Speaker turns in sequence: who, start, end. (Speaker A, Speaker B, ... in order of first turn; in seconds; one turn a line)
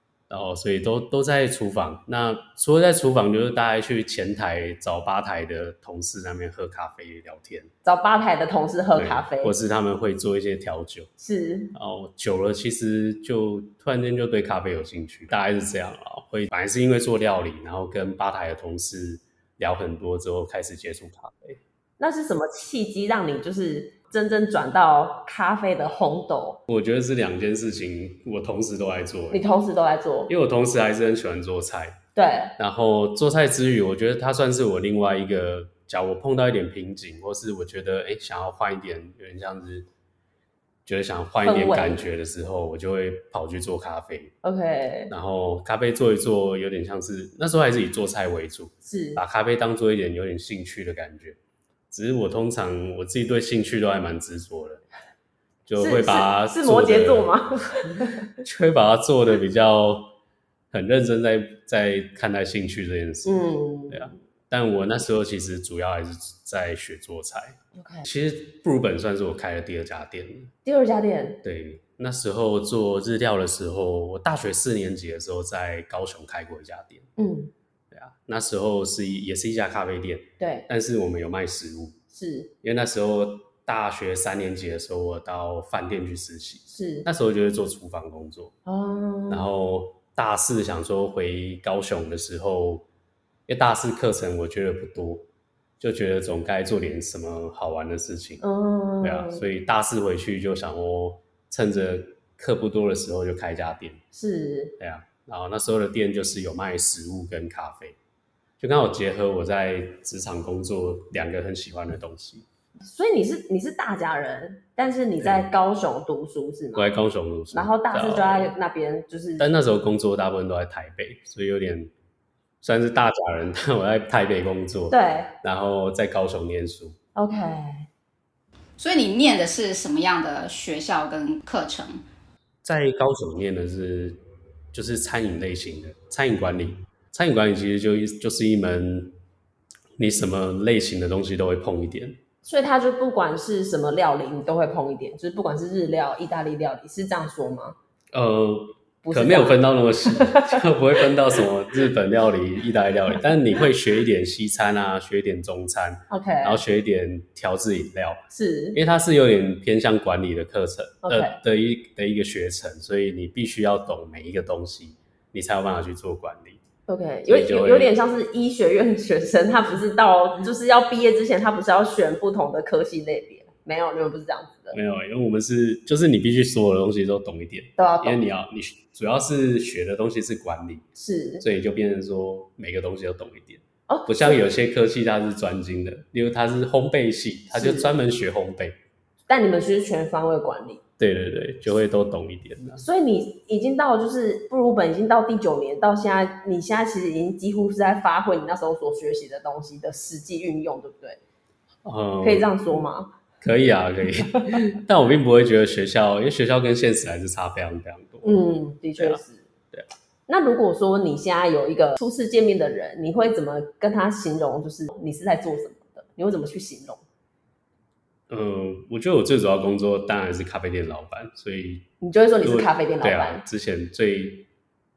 Speaker A: 0.3-7.7
Speaker B: 7.8-9.6
Speaker A: 8.9-11.1
Speaker B: 11.2-11.8
Speaker A: 11.8-21.6
Speaker B: 22.0-26.6
Speaker A: 26.7-29.4
Speaker B: 29.3-30.3
Speaker A: 30.3-32.0
Speaker B: 32.1-32.5
Speaker A: 32.6-39.9
Speaker A: 40.9-44.3
Speaker B: 41.4-42.0
Speaker B: 44.4-45.1
Speaker A: 45.1-51.4
Speaker B: 48.9-49.2
Speaker A: 51.9-54.8
Speaker A: 55.7-57.4
Speaker B: 55.8-58.3
Speaker A: 58.4-60.1
Speaker A: 60.7-70.5
Speaker B: 63.2-64.2
Speaker B: 67.8-68.1
Speaker B: 70.7-71.4
Speaker A: 71.4-77.1
Speaker B: 77.2-77.5
Speaker A: 77.9-82.0
Speaker B: 80.4-80.7
Speaker B: 82.1-82.5
Speaker A: 82.6-88.5
Speaker B: 86.7-87.1
Speaker B: 88.7-89.5
Speaker A: 89.3-92.9
Speaker A: 93.5-95.3
Speaker A: 95.8-98.4
Speaker B: 98.4-99.4
Speaker A: 99.0-104.0
Speaker B: 104.1-104.8
Speaker A: 104.8-108.0
Speaker A: 108.6-112.5
Speaker B: 112.8-116.9
Speaker A: 115.2-115.5
Speaker A: 116.8-118.5
Speaker B: 117.5-119.5
Speaker A: 119.4-121.9
Speaker A: 122.6-127.0
Speaker B: 124.9-125.3
Speaker B: 127.2-127.9
Speaker C: 128.8-132.0
Speaker A: 132.6-134.2
Speaker A: 134.7-139.2
Speaker A: 140.0-142.2
Speaker B: 142.4-147.8
Speaker A: 148.1-166.6
Speaker B: 149.0-150.7
Speaker B: 156.1-156.6
Speaker B: 158.3-158.8
Speaker B: 161.0-161.4
Speaker B: 166.9-174.8
Speaker A: 167.3-167.9
Speaker A: 174.7-180.8
Speaker B: 177.8-178.2
Speaker B: 181.0-181.4
Speaker A: 181.4-188.8
Speaker B: 183.9-184.4
Speaker B: 187.5-187.9
Speaker B: 189.3-190.8
Speaker A: 191.0-192.8
Speaker B: 192.8-201.2
Speaker A: 201.8-202.6
Speaker B: 202.2-203.1
Speaker A: 203.4-208.3
Speaker B: 208.2-209.4
Speaker A: 209.0-209.9
Speaker B: 210.3-217.0
Speaker A: 218.3-221.9
Speaker B: 222.0-223.4
Speaker A: 222.4-224.5